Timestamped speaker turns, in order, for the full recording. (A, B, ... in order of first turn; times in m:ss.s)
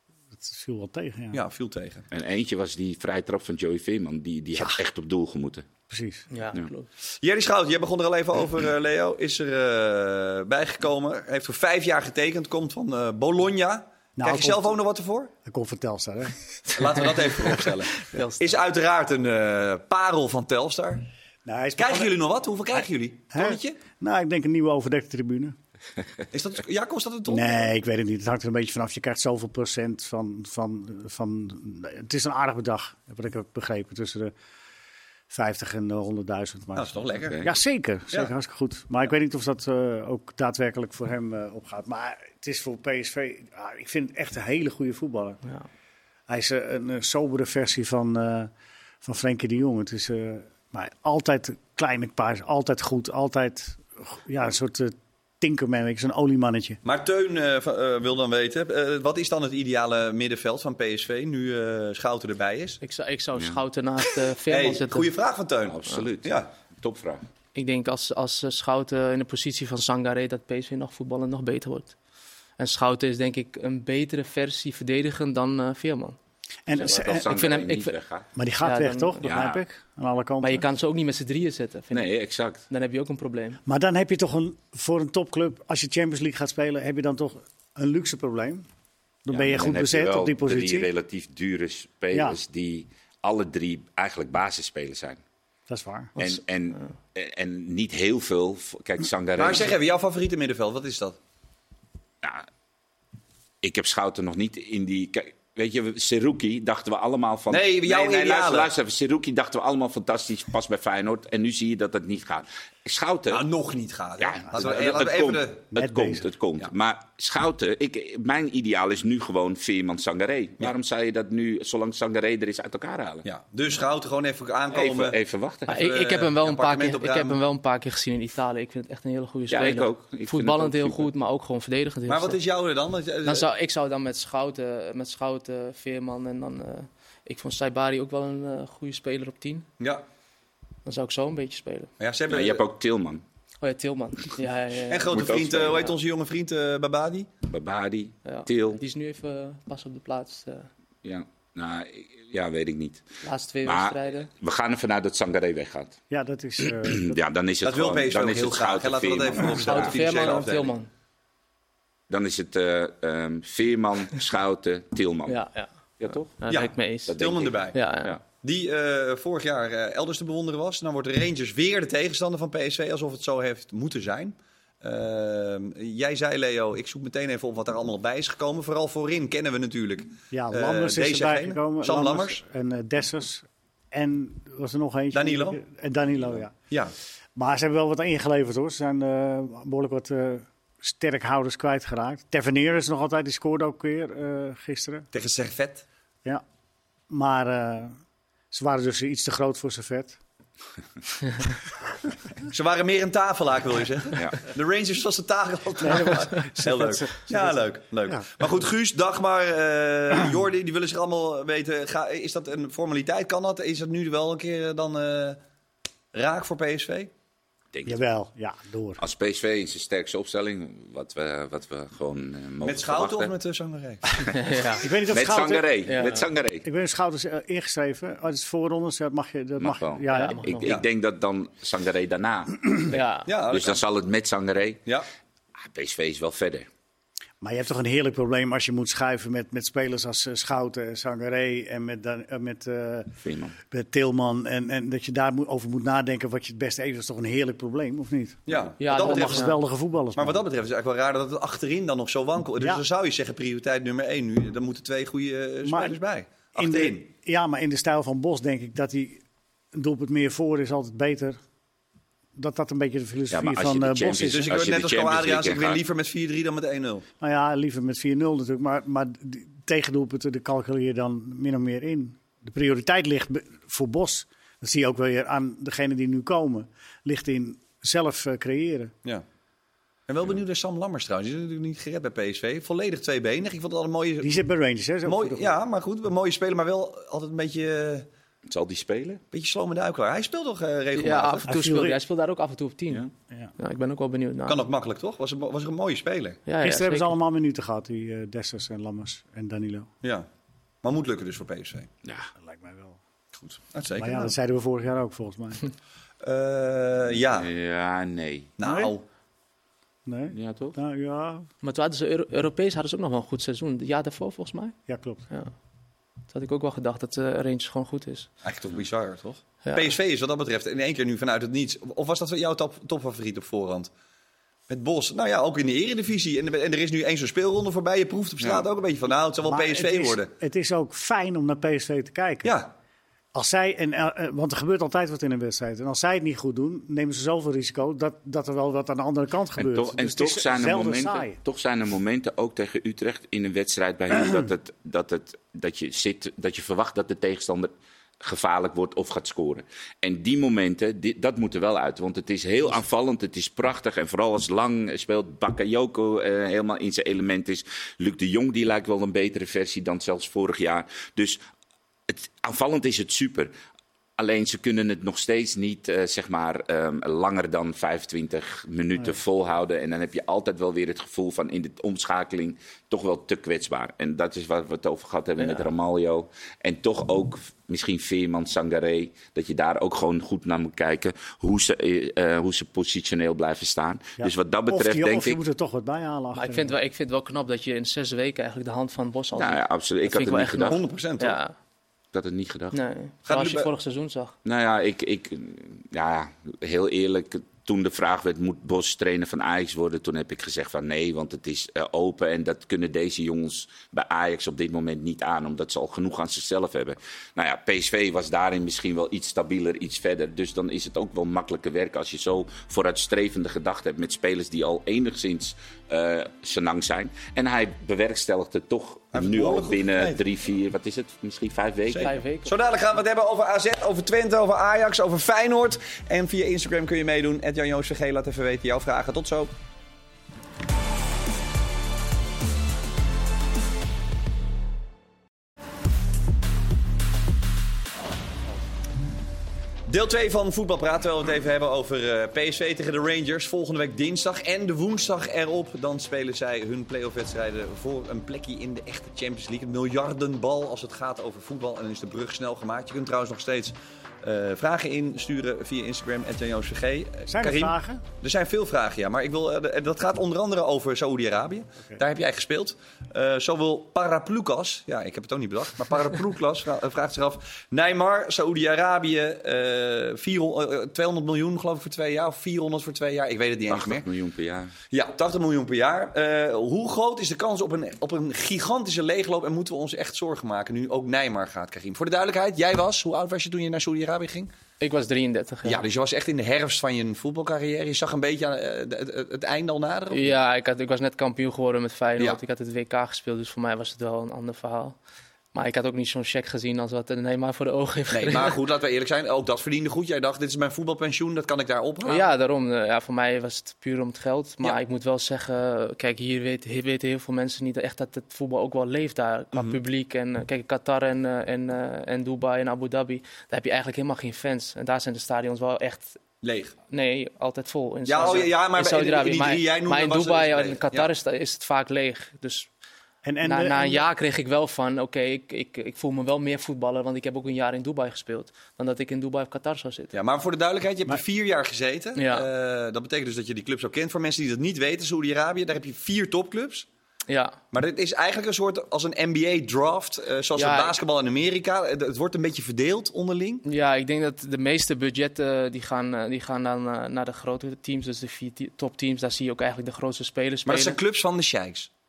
0:00.3-0:01.4 A
0:01.3-0:02.0 B
0:02.1-0:05.6 C
0:05.9-0:06.2 A
0:06.3-0:06.9 D
0:07.2-0:15.3 B
0:14.2-0:14.7 A
0:15.4-0:16.6 A
0:16.8-0:21.0 B
0:17.5-0:18.5 D
0:21.4-0:22.2 A
0:21.8-0:23.8 B
0:23.3-0:25.6 A
0:26.3-0:27.7 B
0:27.3-0:34.3 A
0:35.3-0:45.4 A
0:36.8-0:37.4 B
0:46.3-0:48.5 A
0:49.0-0:56.8 A
0:56.8-1:02.8 B
1:02.8-1:05.1 D
1:04.5-1:06.5 B
1:05.6-1:07.2 C
1:07.5-1:12.0 D
1:12.6-1:16.2 D
1:16.6-1:17.3 A
1:16.7-1:18.2 C
1:16.9-1:18.0 D
1:18.4-1:20.6 A
1:18.6-1:19.3 D
1:19.2-1:19.6 C
1:20.4-1:22.1 D
1:21.9-1:22.6 C
1:22.7-1:23.6 D
1:23.6-1:28.6 A
1:29.2-1:30.9 A
1:29.3-1:35.2 C
1:32.1-1:32.4 A
1:35.7-1:36.2 A
1:36.2-1:39.7 C
1:39.4-1:41.2 B
1:43.6-1:53.4 C
1:47.5-1:48.7 B
1:53.3-1:55.6 B
1:54.2-2:03.2 C
1:54.5-1:54.8 A
1:55.7-1:56.3 A
2:03.2-2:05.2 B
2:04.7-2:05.7 C
2:05.7-2:07.4 B
2:05.7-2:12.4 D
2:09.5-2:11.1 C
2:12.1-2:13.5 B
2:13.2-2:19.7 D
2:20.8-2:21.9 D
2:22.0-2:22.7 B
2:22.3-2:23.2 C
2:23.6-2:25.8 D
2:24.9-2:27.3 B
2:25.1-2:25.9 C
2:27.5-2:28.8 C
2:28.2-2:30.7 D
2:31.0-2:33.1 C
2:33.2-2:34.3 D
2:33.6-2:36.0 C
2:36.1-2:37.2 A
2:36.6-2:40.4 C
2:37.6-2:40.7 B
2:39.6-2:40.9 D
2:42.1-2:45.4 C
2:45.3-2:47.2 D
2:46.0-2:46.3 C
2:46.5-2:47.8 B
2:47.1-2:48.2 C
2:47.7-2:48.2 D
2:48.3-3:02.4 B
3:00.3-3:06.5 A
3:05.1-3:05.6 B
3:07.3-3:15.1 A
3:15.1-3:15.8 B
3:17.1-3:18.0 A
3:18.5-3:20.2 A
3:22.5-3:35.4 B
3:24.1-3:24.5 C
3:25.8-3:28.2 A
3:36.1-3:37.1 B
3:37.8-3:39.0 A
3:39.0-3:43.3 C
3:42.6-3:44.3 B
3:44.3-3:44.8 D
3:44.8-3:50.5 A
3:44.9-3:46.7 C
3:45.8-3:46.2 D
3:49.6-3:52.9 C
3:50.1-3:50.8 D
3:52.9-3:53.3 D
3:53.2-3:53.8 B
3:53.5-3:54.9 C
3:55.6-3:56.7 C
3:57.4-4:03.2 A
4:03.2-4:03.6 C
4:03.7-4:10.4 A
4:08.5-4:09.6 B
4:08.8-4:09.6 D
4:10.2-4:17.0 B
4:15.6-4:16.0 A
4:16.5-4:21.4 A
4:22.3-4:24.6 A
4:23.3-4:25.8 C
4:24.1-4:27.0 B
4:27.2-4:38.9 A
4:40.1-4:44.4 B
4:44.2-4:45.5 A
4:45.0-4:48.0 B
4:48.5-4:49.2 C
4:49.3-4:51.5 B
4:51.0-4:53.0 D
4:51.5-4:52.0 A
4:53.6-4:54.6 D
4:54.5-4:56.4 B
4:56.5-4:57.2 D
4:56.6-4:59.9 A
5:00.0-5:00.3 B
5:00.8-5:01.9 B
5:02.0-5:02.3 C
5:02.4-5:03.0 A
5:03.4-5:04.3 B
5:04.0-5:05.7 A
5:06.2-5:07.5 B
5:07.2-5:08.5 C
5:08.6-5:09.0 B
5:08.6-5:08.9 A
5:10.0-5:11.5 A
5:10.3-5:10.8 C
5:11.6-5:14.8 D
5:14.9-5:15.2 A
5:16.3-5:18.3 D
5:18.4-5:23.9 B
5:19.6-5:19.9 D
5:24.7-5:30.3 B
5:28.4-5:28.7 C
5:29.4-5:32.6 A
5:32.4-5:32.7 B
5:33.3-5:41.4 A
5:39.6-6:01.4 C
6:02.1-6:03.5 C
6:04.2-6:25.4 C
6:24.2-6:26.7 A
6:26.3-6:31.5 D
6:29.3-6:30.8 C
6:30.6-6:31.4 B
6:32.1-6:32.8 C
6:32.7-6:34.3 D
6:33.2-6:33.7 B
6:34.4-7:02.1 C
6:59.1-7:00.2 B
7:01.9-7:09.5 B
7:02.0-7:02.5 D
7:19.9-7:54.0 B
7:37.3-7:38.0 A
7:53.7-7:54.7 C
7:54.9-8:04.5 B
8:04.8-8:05.8 D
8:05.6-8:10.3 B
8:10.1-8:15.0 D
8:15.5-8:18.6 D
8:18.1-8:22.3 B
8:22.0-8:36.2 D
8:29.5-8:29.8 B
8:36.4-8:36.8 B
8:36.9-8:42.7 D
8:38.1-8:41.1 B
8:43.2-8:44.0 A
8:43.4-8:50.2 D
8:50.1-8:56.9 B
8:52.2-8:52.5 D
8:57.3-8:57.6 D
8:57.7-9:03.6 B
9:00.5-9:01.0 D
9:03.6-9:11.0 D
9:10.7-9:11.9 B